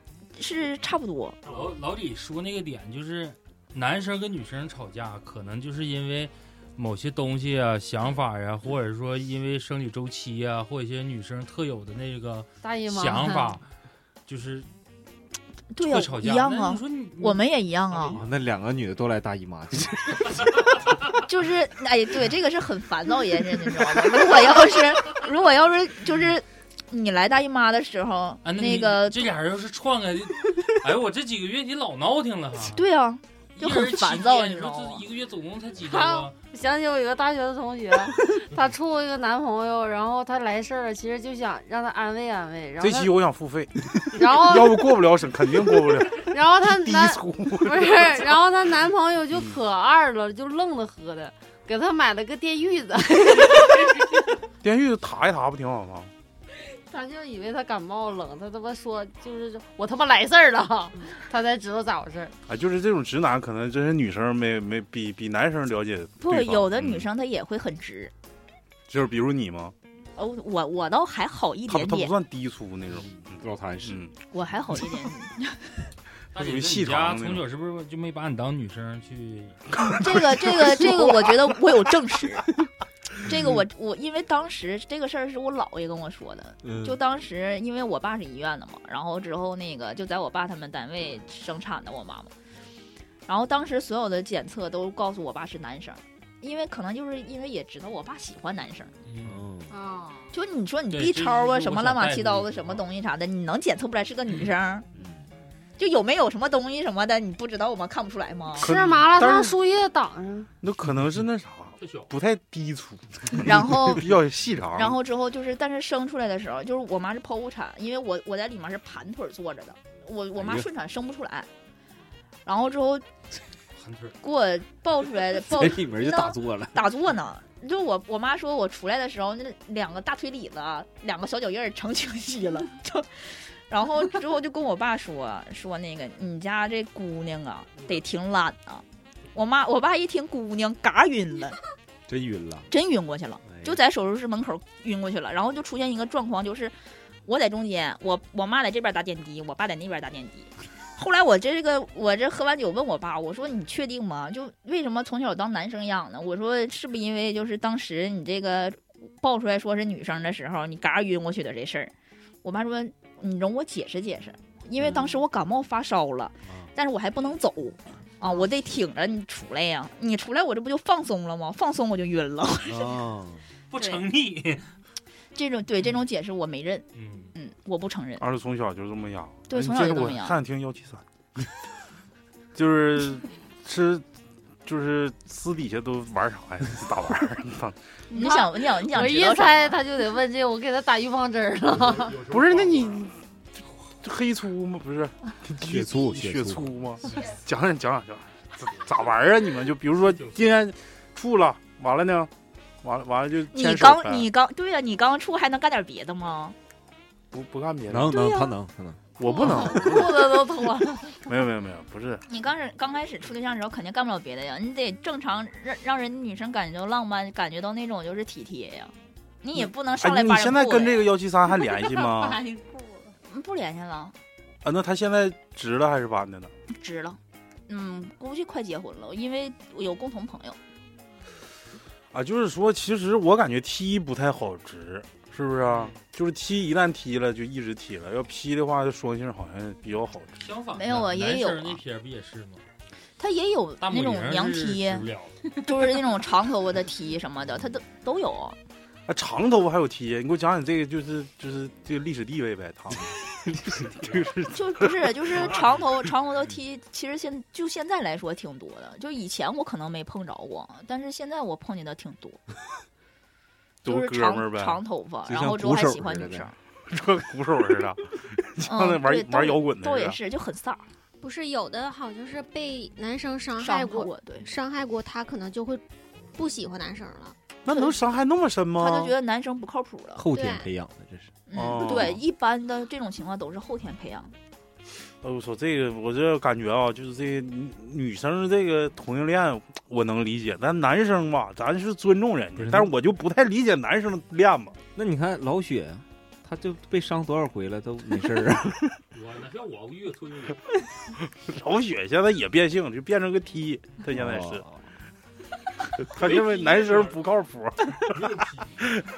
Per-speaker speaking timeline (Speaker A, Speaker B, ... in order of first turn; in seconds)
Speaker A: 0.4-1.4, 15.7-18.2, 21.2-29.3, 32.7-35.0, 66.2-68.1, 70.2-72.1, 74.3-75.7, 79.8-82.5, 83.2-92.3, 93.3-98.9, 100.3-104.8, 105.8-108.7, 113.4-114.1, 114.8-121.5, 122.5-123.0, 124.2-141.6, 142.7-146.7, 147.2-161.9, 162.4-172.9, 173.8-174.0, 175.3-178.2, 179.5-180.4, 188.1-189.8, 203.5-206.5, 208.1-208.4, 209.3-210.9, 212.3-221.1, 223.3-224.1, 226.7-230.6, 240.7-241.8, 243.2-248.6, 254.5-262.4, 263.8-266.5, 268.6-270.9, 273.6-274.5, 278.8-280.2, 281.5-284.3
Speaker B: 1.4-1.8, 111.8-112.1, 191.7-193.1, 198.7-199.1, 200.1-200.5, 255.4-255.7, 299.1-300.7, 306.1-307.2, 308.1-308.8
Speaker C: 1.5-13.6, 14.2-14.7, 15.8-18.2, 28.4-32.9, 33.6-36.4, 76.4-79.6, 99.0-99.4, 100.9-102.8, 123.8-124.2, 173.7-174.7, 176.9-177.3, 240.4-242.6, 243.8-245.5
Speaker D: 12.6-13.6, 35.8-43.1, 44.1-44.9, 46.2-54.1, 56.7-62.3, 108.6-110.5, 188.1-192.2, 210.2-211.1, 221.6-223.1
Speaker E: 18.1-20.4, 73.4-74.0, 86.7-86.9, 99.2-99.7, 104.9-105.2, 120.4-120.7, 125.4-126.8, 142.1-142.7, 164.8-165.1, 172.7-173.4, 195.6-196.8, 207.9-209.0, 253.5-253.8, 265.2-266.5, 280.1-281.3, 292.6-292.9, 294.9-298.9, 304.1-304.8
Speaker F: 42.8-48.4, 49.3-49.6, 54.6-56.1, 62.5-67.1, 68.9-69.7, 71.7-74.1, 76.3-77.4, 108.6-109.5, 110.6-115.0, 178.2-181.0, 182.5-184.0, 184.7-187.8, 192.3-193.1, 193.9-202.3, 202.8-204.3, 207.3-208.2, 209.2-210.3, 211.2-212.2, 219.6-222.4, 224.6-226.5, 232.1-240.4, 249.1-253.1, 253.8-254.9, 263.8-264.8, 266.9-270.2, 277.6-279.1, 281.5-282.2, 285.2-294.8, 301.4-304.6, 306.0-308.2
Speaker G: 99.7-100.3, 271.2-275.8, 276.3-277.4, 280.3-280.7